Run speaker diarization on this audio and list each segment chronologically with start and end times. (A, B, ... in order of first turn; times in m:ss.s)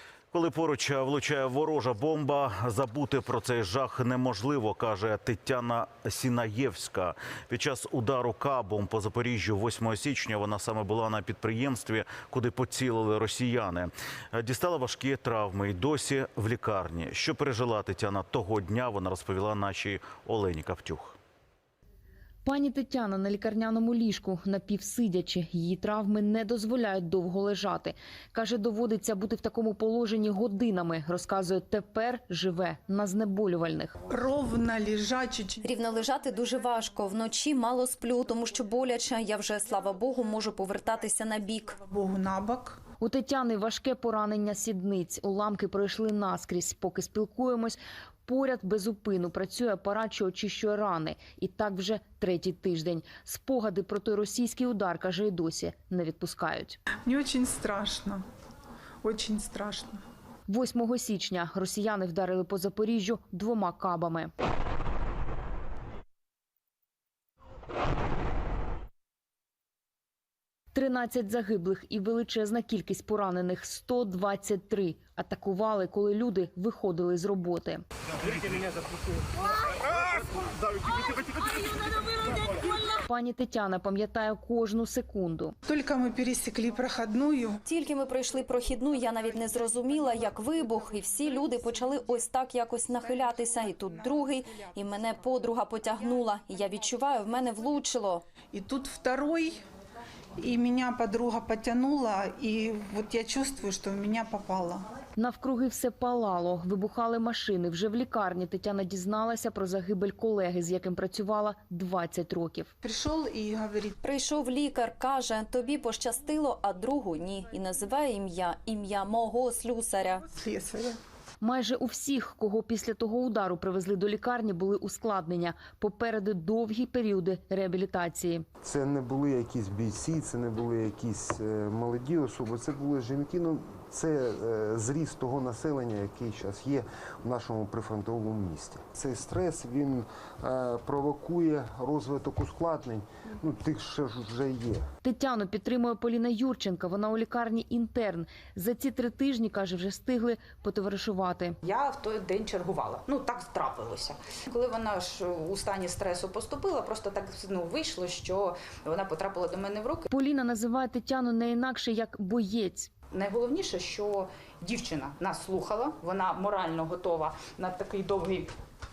0:00.3-0:21.2 A
0:22.4-0:34.0 B
0:34.1-0:35.7 C
0:35.7-0:41.8 D
0:41.8-0:42.8 C
0:43.0-0:56.8 B
0:57.0-0:58.2 C
0:59.0-1:00.0 C
1:00.5-1:04.3 B
1:10.7-1:17.8 B
1:23.1-1:25.6 B
1:25.7-1:27.7 C
1:27.7-1:38.2 D
1:38.5-1:39.6 C
1:40.4-1:44.8 C
1:45.2-1:52.7 B
1:52.8-1:54.0 C
1:54.1-2:00.2 D
2:00.3-2:01.0 C
2:01.4-2:08.5 B
2:08.6-2:24.8 E
2:25.0-2:31.6 B
2:31.6-2:40.1 F
2:40.1-2:42.9 B
2:43.1-2:48.5 F